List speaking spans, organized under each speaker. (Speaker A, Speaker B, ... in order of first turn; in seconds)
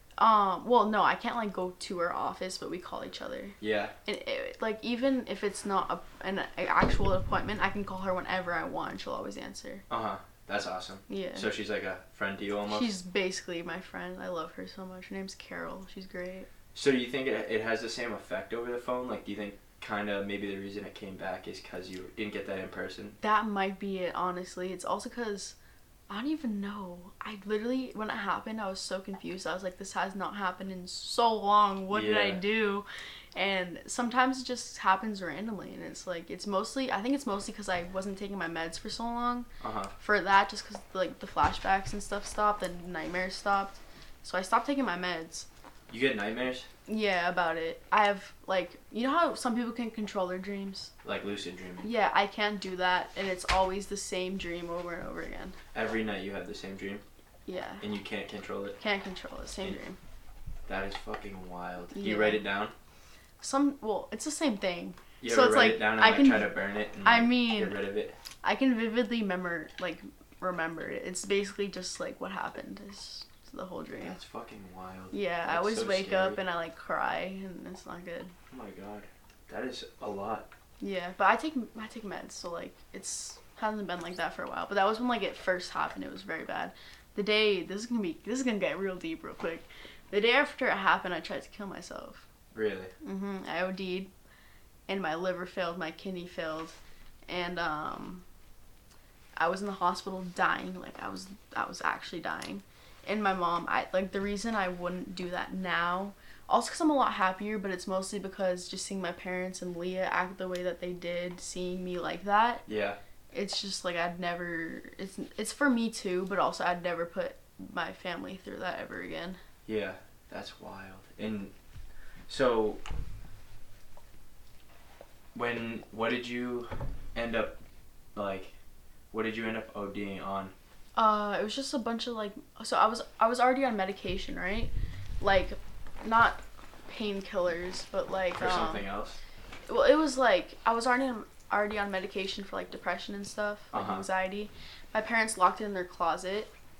Speaker A: 0.2-9.8, 11.1-11.5, 12.7-16.5, 23.2-25.5, 26.1-39.5, 40.0-45.5, 46.9-50.9, 51.8-55.5, 57.5-57.8, 58.8-60.0, 61.9-62.4, 63.4-66.5, 67.0-67.8, 68.4-74.2, 75.1-78.3, 80.8-92.2, 93.0-94.1, 94.9-98.2, 99.3-112.7, 113.3-119.4, 130.9-138.9, 139.7-146.5
Speaker B: 3.6-3.9, 9.9-12.9, 16.7-23.2, 31.9-32.4, 39.6-39.9, 45.9-46.7, 51.0-51.9, 55.7-57.0, 57.8-58.8, 60.7-62.7, 65.2-68.2, 74.0-76.4, 78.5-80.5, 92.5-92.9, 112.7-113.0, 119.7-121.5, 122.3-122.8, 125.3-127.5, 128.1-128.5, 129.1-130.5, 138.3-139.2, 143.7-144.0